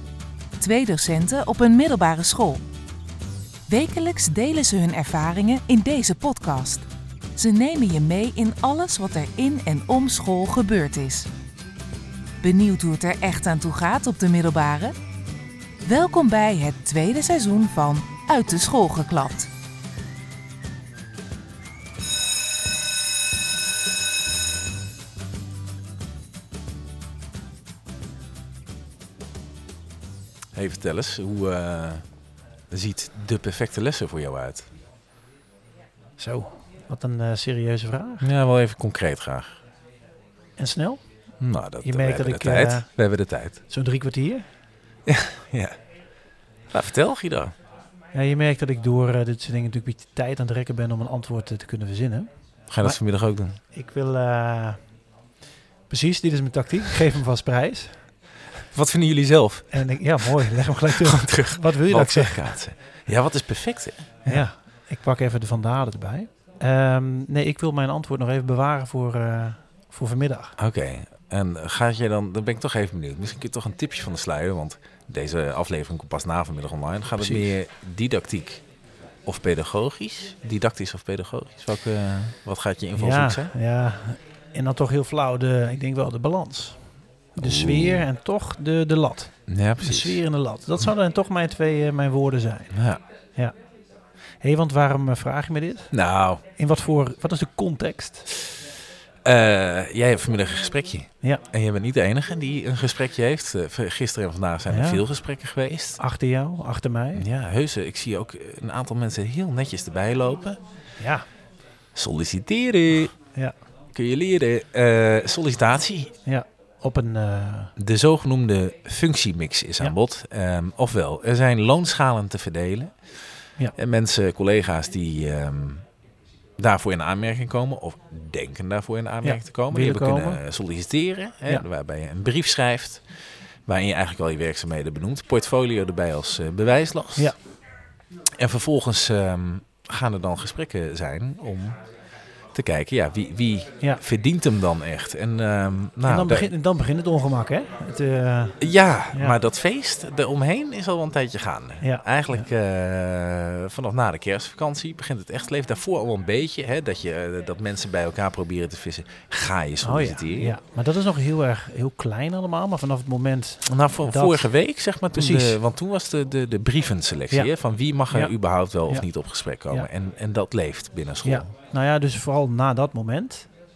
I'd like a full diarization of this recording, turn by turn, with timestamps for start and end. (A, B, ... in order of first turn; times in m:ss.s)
0:00.6-0:02.6 A
0:03.7-0:11.3 A
0:12.4-0:14.9 A
0:15.8-0:19.5 A
0:30.5-0:32.0 B
0:32.7-0:34.7 B
0:36.2-0:38.3 C
0:38.2-0:39.6 B
0:40.6-0:41.0 C
0:41.4-0:43.6 B
0:41.8-0:42.9 C
0:43.7-0:44.4 C
0:45.0-0:45.8 B
0:46.7-0:47.5 B
0:48.1-0:52.3 C
0:52.7-0:53.6 B
0:53.7-0:54.8 C
0:55.9-0:58.0 C
0:58.7-1:04.4 B
0:59.7-1:02.5 C
1:04.2-1:10.6 C
1:10.6-1:18.6 B
1:19.2-1:23.5 B
1:23.0-1:26.8 C
1:27.3-1:32.7 C
1:27.4-1:28.1 B
1:29.5-1:30.2 B
1:32.7-1:33.0 B
1:34.4-1:35.9 C
1:35.9-1:36.4 B
1:36.6-1:38.3 C
1:39.2-1:46.0 B
1:44.7-1:45.0 C
1:46.0-1:47.2 C
1:47.1-1:50.6 B
1:51.0-1:51.2 C
1:51.9-1:53.1 B
1:53.9-1:56.1 B
1:56.2-1:57.7 C
1:57.8-2:03.2 B
2:03.8-2:05.8 B
2:06.6-2:17.3 B
2:09.2-2:10.4 C
2:18.3-2:21.8 B
2:22.5-2:26.5 B
2:26.0-2:29.4 C
2:28.6-2:40.5 B
2:31.8-2:32.4 C
2:39.8-2:44.5 C
2:43.6-2:51.5 B
2:45.1-2:45.6 C
2:51.2-2:53.5 C